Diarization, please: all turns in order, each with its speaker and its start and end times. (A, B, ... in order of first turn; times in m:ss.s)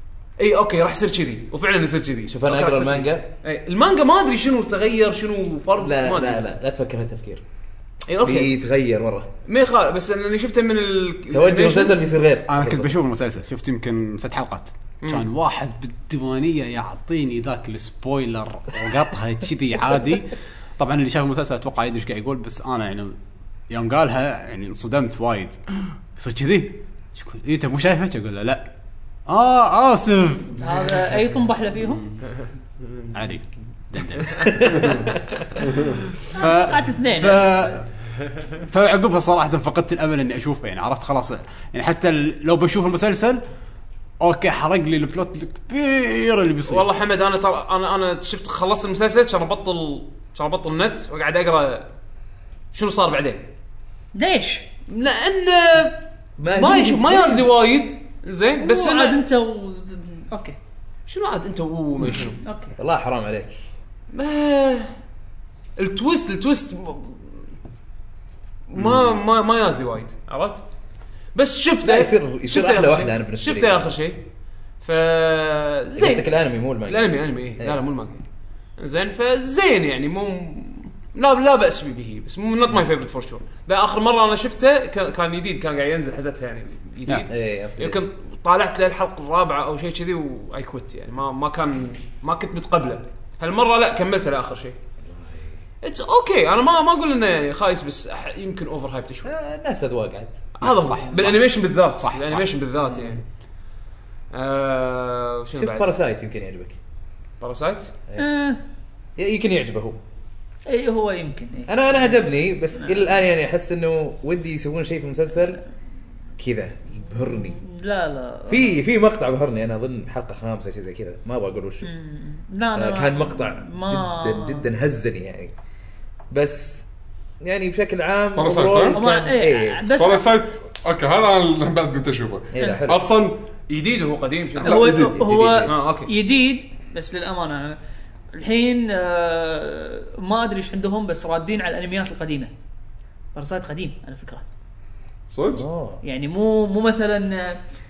0:00.4-0:06.5 A
0:02.3-0:03.2 B
0:05.8-0:07.4 B
0:08.1-0:08.5 A
0:08.2-0:09.3 B
0:09.4-0:12.0 A
0:11.3-0:12.9 B
0:12.5-0:23.2 C
0:23.7-0:25.6 C
0:26.2-0:28.7 C
0:29.3-0:31.0 C
0:30.6-0:32.1 D
0:33.1-0:35.0 C
0:34.6-0:34.9 B
0:36.3-0:37.9 C
0:36.3-0:37.6 D
0:38.6-0:43.4 C
0:44.2-0:46.9 C
0:46.7-0:51.9 A
0:52.7-0:53.5 A
0:54.1-0:54.6 D
0:54.9-0:56.0 A
0:56.4-0:57.4 B
0:56.5-0:59.2 A
0:58.6-1:00.6 D
1:01.1-1:02.4 A
1:02.4-1:02.7 D
1:02.8-1:03.6 B
1:04.1-1:04.9 A
1:05.8-1:07.4 A
1:08.7-1:10.6 A
1:08.8-1:09.1 C
1:11.3-1:14.2 A
1:11.8-1:13.9 B
1:14.8-1:16.3 A
1:16.0-1:17.8 B
1:16.8-1:18.2 A
1:18.8-1:34.8 A
1:27.3-1:28.0 B
1:35.0-1:35.6 B
1:35.8-1:39.3 A
1:39.2-1:40.4 B
1:40.6-1:43.2 A
1:40.6-1:42.5 C
1:44.3-1:46.0 A
1:45.6-1:46.8 B
1:47.4-1:47.9 A
1:48.2-1:48.6 D
1:49.2-1:50.0 B
1:50.6-1:52.2 D
1:51.7-1:55.6 B
1:52.8-1:53.0 D
1:56.4-1:57.6 B
1:57.6-1:58.7 D
1:58.5-2:01.9 B
2:01.8-2:04.7 D
2:02.8-2:05.5 B
2:06.3-2:06.8 B
2:07.4-2:09.8 B
2:08.4-2:09.0 E
2:08.9-2:10.3 D
2:09.9-2:13.4 E
2:12.5-2:13.1 B
2:13.7-2:15.1 A
2:14.6-2:15.2 E
2:14.6-2:17.8 D
2:14.9-2:15.7 B
2:15.6-2:16.1 A
2:18.3-2:22.5 D
2:23.3-2:24.4 D
2:25.3-2:25.6 E
2:25.5-2:26.0 B
2:26.0-2:27.6 D